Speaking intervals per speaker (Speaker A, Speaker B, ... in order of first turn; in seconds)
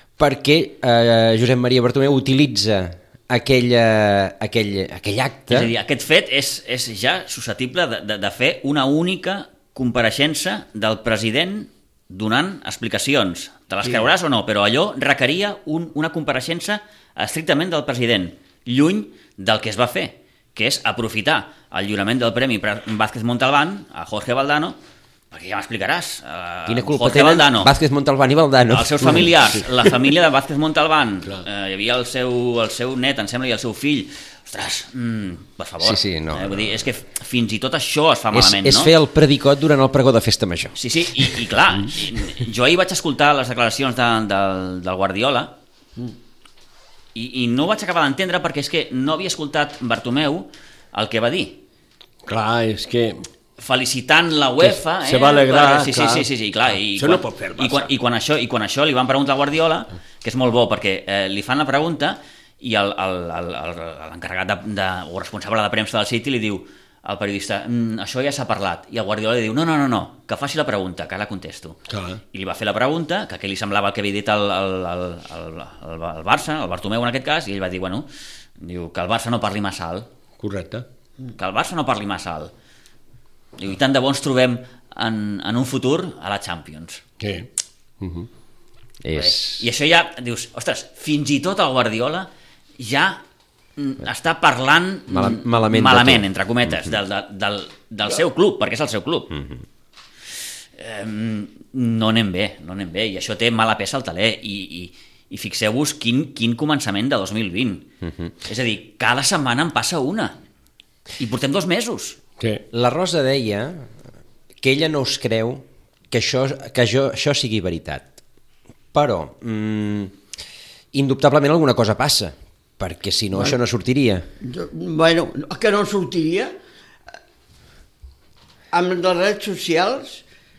Speaker A: 0.2-5.7, 26.7-29.3, 35.8-36.7, 38.3-40.8, 89.0-89.7, 95.1-96.9, 99.3-99.6, 108.0-108.3, 112.7-113.9, 114.6-118.1, 118.9-120.1, 120.9-124.2
Speaker B: 5.5-24.8, 25.3-27.7, 28.6-38.9, 40.8-45.5, 47.1-51.6, 53.6-71.8, 72.3-78.0, 78.6-80.1, 81.4-82.5, 83.6-87.0, 89.1-93.2, 93.8-99.3, 100.8-107.8, 108.4-110.3, 111.2-112.2
Speaker C: 52.2-53.2, 54.6-56.3, 57.0-57.9, 71.9-72.2, 80.4-80.8, 87.2-87.5, 88.0-88.3
Speaker D: 124.4-126.5, 128.7-130.2